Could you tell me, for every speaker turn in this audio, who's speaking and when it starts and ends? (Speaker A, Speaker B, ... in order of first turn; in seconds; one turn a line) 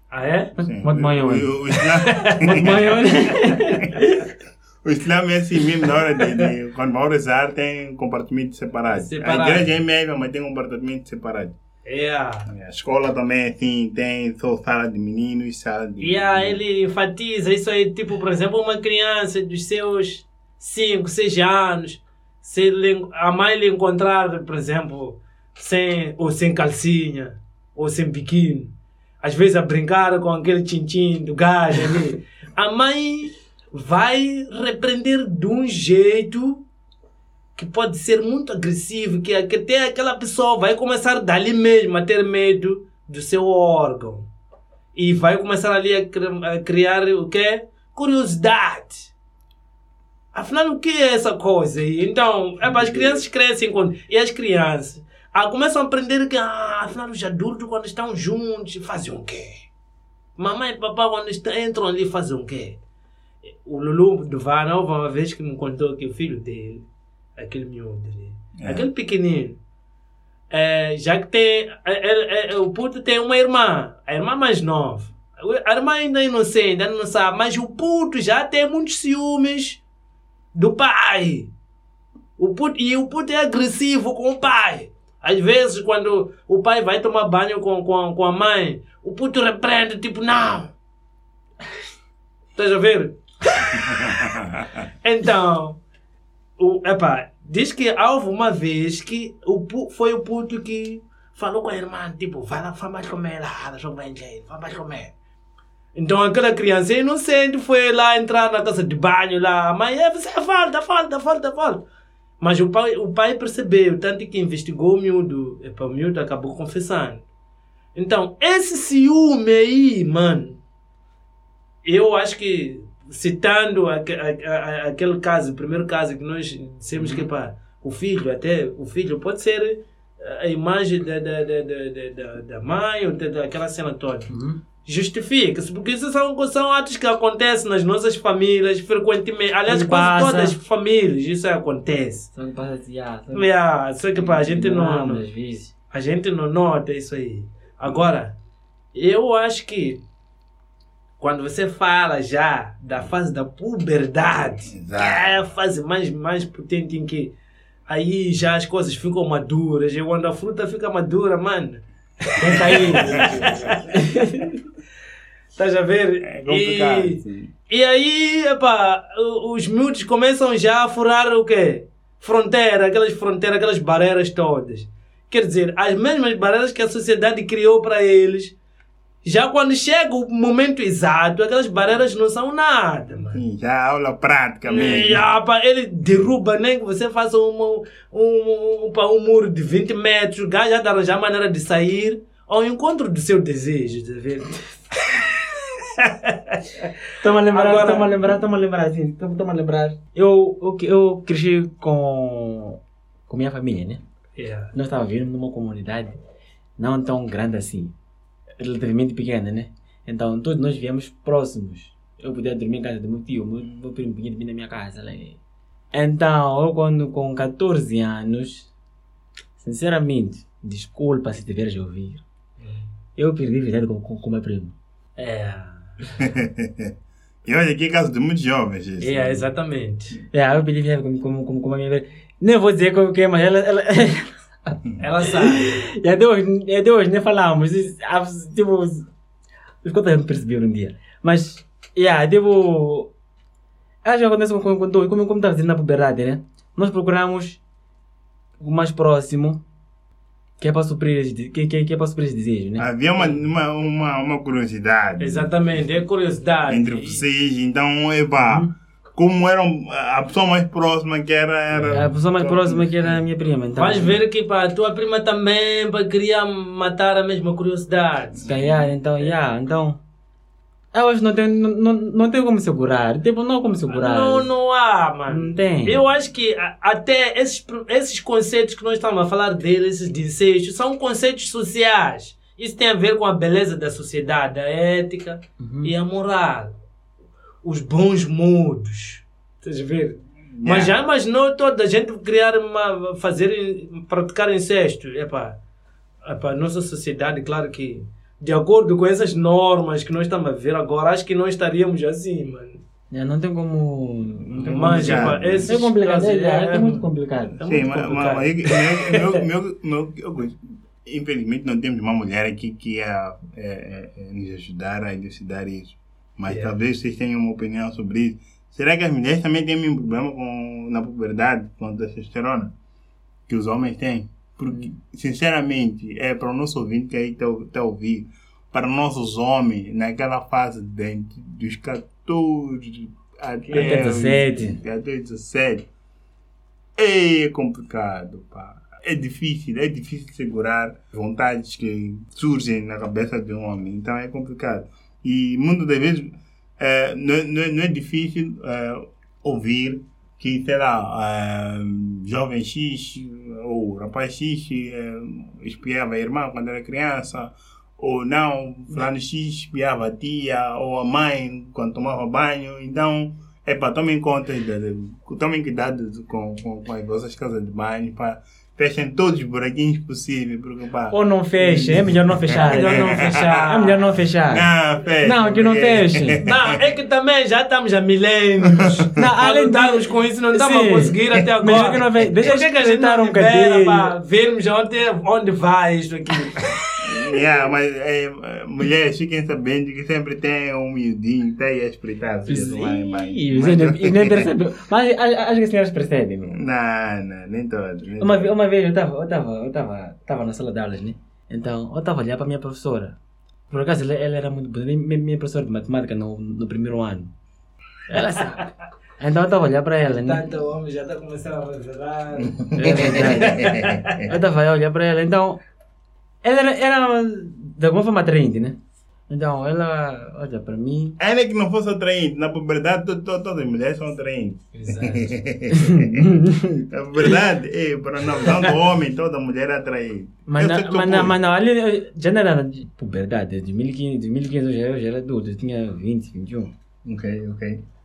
Speaker A: 0.1-0.5
Speaker B: 0.6-3.0
Speaker C: 0.6-1.5
Speaker A: 2.0-2.8
Speaker C: 2.3-4.2
Speaker B: 4.8-11.6
Speaker A: 8.9-9.7
Speaker A: 11.8-12.5
Speaker B: 12.5-16.6
Speaker A: 16.0-36.6
Speaker A: 37.5-44.3
Speaker A: 44.9-49.1
Speaker A: 50.3-59.6
Speaker A: 60.4-62.8
Speaker A: 63.5-69.6
Speaker B: 68.6-68.9
Speaker A: 70.5-79.8
Speaker A: 80.5-81.5
Speaker A: 82.4-90.7
Speaker A: 92.5-94.3
Speaker B: 93.8-94.8
Speaker A: 95.0-95.8
Speaker A: 96.6-105.1
Speaker A: 105.9-111.8
Speaker A: 112.4-117.2
Speaker A: 117.9-120.6
Speaker A: 121.8-134.3
Speaker C: 127.0-127.3
Speaker C: 134.3-134.6
Speaker A: 134.8-142.3
Speaker C: 139.7-140.6
Speaker C: 142.3-143.5
Speaker A: 143.3-145.2
Speaker C: 144.1-145.7
Speaker A: 145.9-148.4
Speaker A: 148.9-150.0
Speaker A: 151.2-157.3
Speaker B: 154.7-155.4
Speaker A: 157.9-163.8
Speaker C: 162.4-164.5
Speaker B: 162.9-163.7
Speaker A: 165.5-178.5
Speaker B: 166.2-167.5
Speaker A: 179.2-183.4
Speaker B: 183.3-185.3
Speaker A: 184.7-196.9
Speaker C: 197.2-204.0
Speaker A: 197.5-198.1
Speaker A: 204.3-204.7
Speaker C: 204.7-206.2
Speaker C: 206.8-207.9
Speaker C: 208.6-215.4
Speaker C: 215.9-218.7
Speaker C: 219.6-222.2
Speaker A: 222.6-222.9
Speaker C: 223.2-224.8
Speaker A: 225.2-226.2
Speaker B: 226.2-226.9
Speaker B: 227.4-229.4
Speaker A: 229.0-230.2
Speaker C: 230.3-239.1
Speaker A: 235.0-235.8
Speaker C: 239.8-243.1
Speaker C: 244.0-247.6
Speaker C: 248.6-249.6
Speaker C: 250.6-252.8
Speaker B: 252.8-255.5
Speaker A: 255.2-257.2
Speaker B: 256.7-263.2
Speaker C: 258.4-258.7
Speaker C: 261.9-264.2
Speaker A: 263.8-268.6
Speaker C: 268.4-270.0
Speaker C: 270.9-274.5
Speaker A: 273.9-286.7
Speaker C: 275.3-276.0
Speaker C: 285.6-285.9
Speaker A: 287.6-295.6
Speaker B: 290.5-291.0
Speaker A: 296.2-302.8
Speaker C: 303.1-307.6
Speaker A: 304.5-307.0
Speaker B: 304.9-305.8
Speaker A: 307.6-309.2
Speaker B: 307.6-322.7
Speaker B: 323.5-335.9
Speaker A: 333.7-334.1
Speaker C: 333.7-334.8
Speaker B: 337.0-373.7
Speaker C: 371.1-374.7
Speaker A: 372.6-374.0
Speaker B: 374.5-376.8
Speaker C: 375.2-376.4
Speaker A: 376.4-387.4
Speaker B: 378.7-379.1
Speaker C: 379.1-384.1
Speaker B: 381.3-381.9
Speaker B: 387.0-394.5
Speaker C: 392.5-396.6
Speaker B: 396.5-398.5
Speaker C: 398.2-403.2
Speaker C: 403.7-407.3
Speaker C: 408.1-408.7
Speaker A: 408.1-408.6
Speaker C: 409.2-410.4
Speaker A: 410.0-414.3
Speaker B: 412.4-414.1
Speaker C: 412.8-415.6
Speaker C: 416.4-418.8
Speaker C: 419.3-421.2
Speaker B: 421.2-431.3
Speaker A: 424.7-425.3
Speaker C: 425.7-426.8
Speaker C: 430.5-436.7
Speaker B: 437.0-437.8